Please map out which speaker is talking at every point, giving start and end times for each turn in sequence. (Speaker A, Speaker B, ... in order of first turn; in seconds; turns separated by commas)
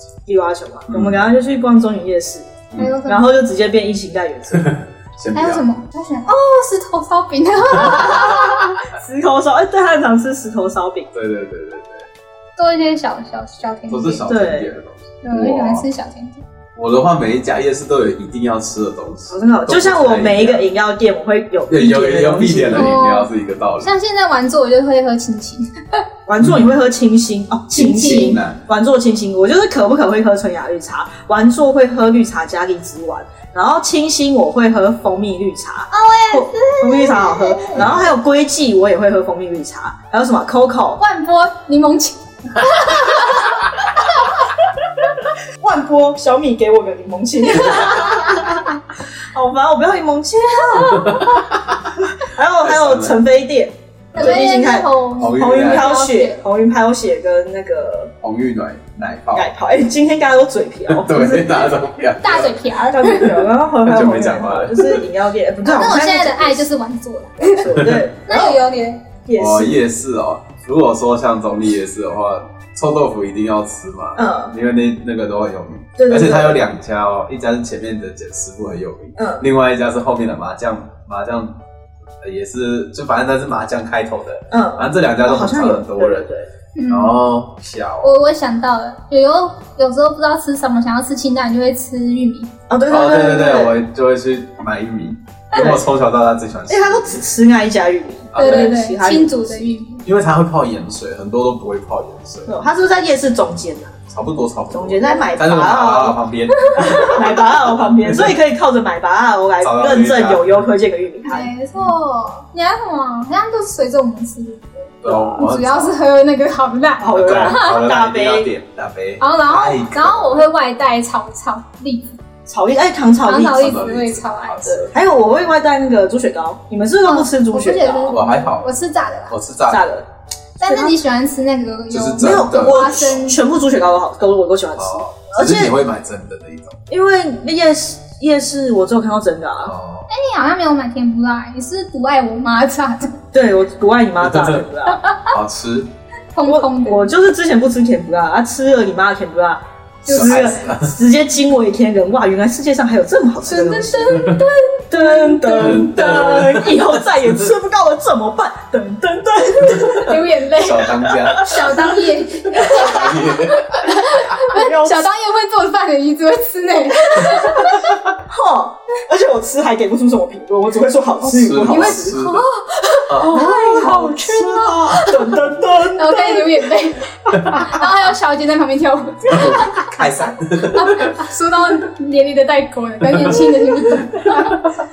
Speaker A: 0.3-4.8, Speaker B: 0.9-1.2, Speaker C: 2.8-3.3, Speaker B: 4.6-5.6, Speaker C: 5.3-8.8, Speaker A: 8.9-11.1, Speaker B: 11.1-12.1, Speaker C: 12.6-14.3, Speaker B: 13.9-15.8, Speaker A: 14.3-14.7, Speaker C: 15.2-16.4, Speaker B: 16.8-20.6, Speaker A: 19.3-23.0, Speaker B: 21.7-23.9, Speaker C: 22.7-26.1, Speaker A: 26.3-41.0, Speaker B: 26.4-26.7, Speaker B: 27.7-28.6, Speaker C: 28.0-28.4, Speaker C: 35.9-37.9, Speaker C: 41.0-44.5, Speaker A: 45.6-48.6, Speaker C: 47.6-48.6, Speaker A: 49.2-51.3, Speaker C: 50.7-51.2, Speaker B: 50.9-51.9, Speaker A: 52.0-58.1, Speaker B: 52.6-53.2, Speaker C: 54.1-56.4, Speaker B: 55.2-55.9, Speaker B: 58.2-59.5, Speaker A: 59.3-61.7, Speaker B: 60.9-62.6, Speaker C: 62.2-63.5, Speaker A: 62.9-66.7, Speaker B: 63.8-65.0, Speaker C: 65.6-69.0, Speaker A: 67.4-68.6, Speaker B: 67.7-68.0, Speaker A: 69.2-69.8, Speaker B: 69.4-81.6, Speaker A: 74.2-74.5, Speaker A: 76.0-76.6, Speaker A: 79.2-79.4, Speaker B: 82.2-86.3, Speaker A: 84.5-86.5, Speaker C: 86.7-87.2, Speaker B: 86.9-88.1, Speaker C: 88.0-92.5, Speaker A: 92.7-93.8, Speaker B: 92.9-97.2, Speaker A: 95.5-95.8, Speaker A: 96.7-99.6, Speaker B: 98.3-98.8, Speaker C: 98.4-100.0, Speaker B: 100.0-102.6, Speaker A: 102.5-104.0, Speaker B: 104.1-107.4, Speaker A: 104.7-106.2, Speaker A: 106.7-111.5, Speaker B: 108.0-108.3, Speaker B: 109.6-110.4, Speaker C: 111.2-117.9, Speaker B: 115.0-116.0, Speaker A: 115.1-115.4, Speaker A: 117.0-118.5, Speaker B: 117.1-120.5, Speaker C: 119.2-122.2, Speaker A: 122.5-123.8, Speaker C: 123.2-124.9, Speaker B: 123.5-124.9, Speaker A: 124.9-128.2, Speaker C: 127.0-129.3, Speaker B: 128.1-128.7, Speaker B: 129.3-129.8, Speaker A: 129.7-130.1, Speaker C: 130.6-133.4, Speaker A: 130.6-130.9, Speaker B: 131.9-133.2, Speaker A: 132.2-135.7, Speaker B: 134.8-136.8, Speaker A: 136.9-139.7, Speaker B: 139.6-140.1, Speaker C: 140.1-143.2, Speaker A: 143.3-145.0, Speaker B: 144.2-144.6, Speaker C: 145.0-145.3, Speaker B: 145.3-145.9, Speaker C: 146.3-147.1, Speaker A: 146.4-154.3, Speaker C: 150.1-150.6, Speaker B: 150.1-150.9, Speaker C: 153.4-155.9, Speaker B: 154.2-154.4, Speaker A: 154.9-160.3, Speaker B: 155.5-157.4, Speaker C: 159.6-168.0, Speaker B: 160.5-161.9, Speaker A: 161.1-161.9, Speaker B: 162.4-163.9, Speaker A: 163.9-165.1, Speaker A: 168.2-172.2, Speaker B: 171.2-172.4, Speaker C: 171.7-175.3, Speaker B: 173.1-175.0, Speaker A: 173.2-176.6, Speaker C: 175.9-184.8, Speaker B: 179.3-181.2